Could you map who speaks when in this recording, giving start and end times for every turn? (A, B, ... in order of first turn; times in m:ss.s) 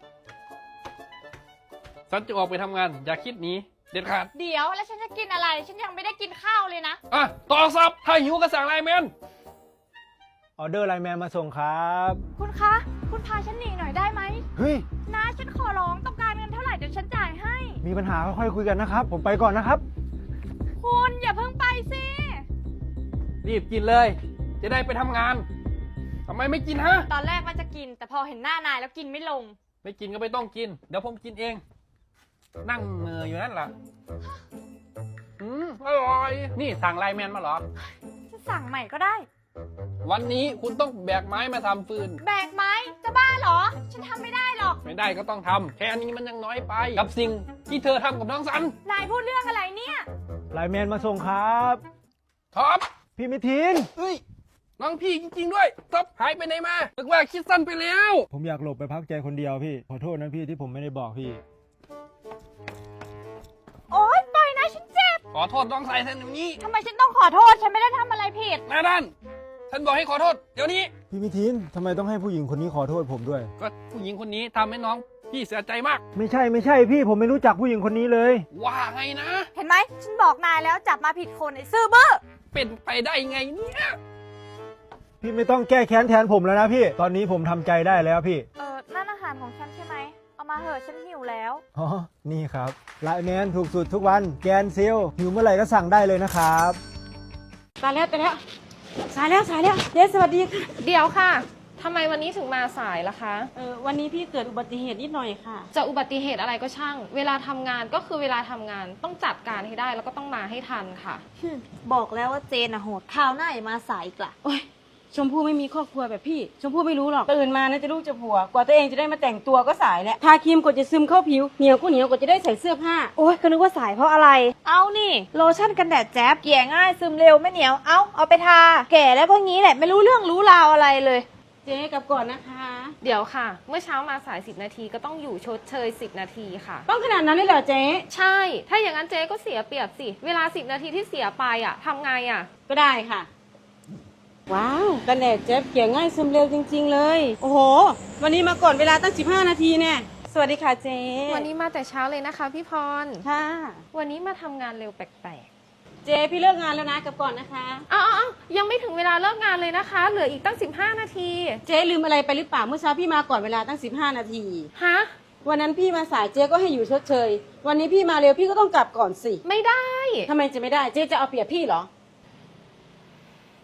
0:02.1-0:04.3 A
0:04.4-0:07.0 B
0:07.1-0:09.1 A
0:10.6-0:12.2 C
0:12.4-0:14.4 B
0:14.6-0:14.8 C
0:15.1-0:17.8 B
0:17.8-0:19.8 C
0:20.8-0:22.4 B
0:23.4-0:25.5 A
0:26.2-0:27.1 A
0:27.1-0:29.6 B
0:29.8-0:31.6 A
0:32.6-0:33.7 A
0:35.4-0:37.6 A
0:38.3-0:39.2 B
0:40.0-0:42.2 A
0:42.2-0:44.8 B
0:44.8-0:48.8 A
0:48.8-0:50.0 B
0:50.5-0:51.8 C
0:52.5-0:52.8 A
0:53.2-0:53.9 C
0:54.0-0:54.2 A
0:54.8-0:58.3 A
0:58.3-1:01.4 C
1:03.9-1:05.2 B
1:05.3-1:06.6 A
1:06.6-1:08.6 B
1:08.7-1:09.1 A
1:09.7-1:10.9 A
1:11.1-1:13.5 C
1:13.6-1:16.0 A
1:16.1-1:18.4 C
1:18.5-1:19.5 A
1:19.6-1:22.2 B
1:22.5-1:24.0 A
1:25.2-1:28.5 C
1:28.6-1:31.6 B
1:31.7-1:36.8 C
1:37.8-1:38.4 D
1:39.1-1:40.7 D
1:40.8-1:43.5 E
1:43.5-1:45.7 D
1:45.7-1:51.2 E
1:51.4-1:54.4 F
1:54.4-2:03.1 D
2:03.2-2:11.3 F
2:11.6-2:12.9 D
2:13.0-2:16.9 E
2:16.8-2:18.0 D
2:18.1-2:22.5 E
2:22.7-2:23.3 D
2:24.5-2:31.5 D
2:31.3-2:33.2 E
2:33.2-2:33.8 D
2:33.9-2:35.5 E
2:36.0-2:37.8 D
2:37.9-2:41.6 E
2:41.6-2:44.7 D
2:44.7-2:45.1 E
2:45.4-2:49.4 D
2:49.4-2:50.3 E
2:50.3-2:51.9 D